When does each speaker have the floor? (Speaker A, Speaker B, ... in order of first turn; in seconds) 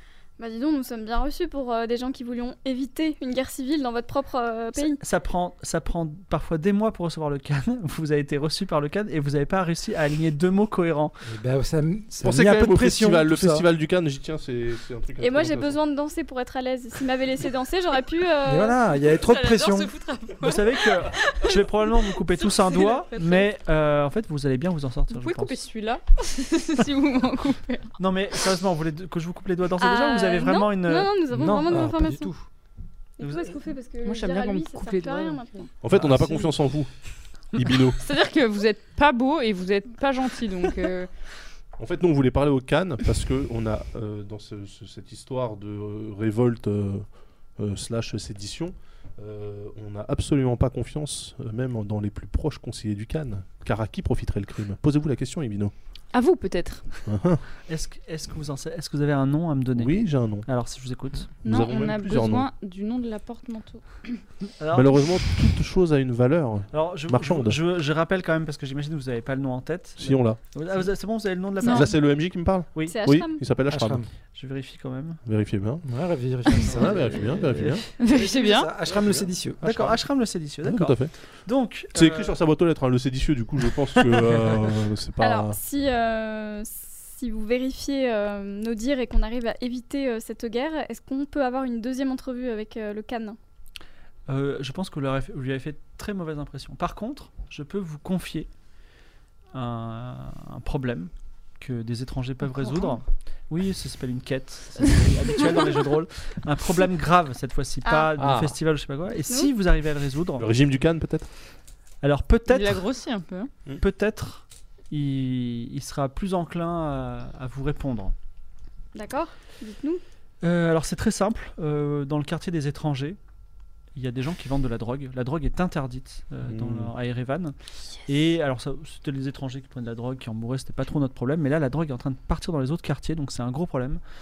Speaker A: 0.4-5.0, 15.2-18.8, 29.8-32.3, 33.2-35.6, 72.8-73.4, 85.2-93.4, 107.8-108.1, 118.9-120.0
Speaker B: 4.8-11.2, 20.4-25.6, 28.0-31.1, 57.7-61.3, 64.6-64.9, 66.7-71.9, 72.7-73.0, 74.3-75.2, 77.5-77.8, 79.6-82.4, 94.3-98.5, 99.5-110.5, 112.0-112.8, 113.8-118.1, 120.4-123.2, 123.9-127.5, 128.1-134.0
Speaker C: 11.2-13.7, 18.4-19.9, 31.3-32.4, 35.9-36.5, 73.7-74.1, 75.8-80.0
Speaker D: 12.2-15.8, 35.8-36.9, 37.5-38.0, 41.8-47.0, 47.6-55.7, 57.0-57.4, 59.8-60.5, 61.4-62.5, 64.7-67.6, 70.0-70.4, 71.6-74.0, 75.2-75.8, 76.5-77.9, 78.9-79.3, 80.6-81.1, 81.9-85.6, 108.2-108.5, 110.4-111.3, 126.4-126.9
Speaker E: 19.0-23.4, 25.1-27.9, 34.0-35.7, 38.0-41.1, 56.1-56.9, 61.4-64.1, 71.6-71.9, 78.0-78.7, 112.5-113.5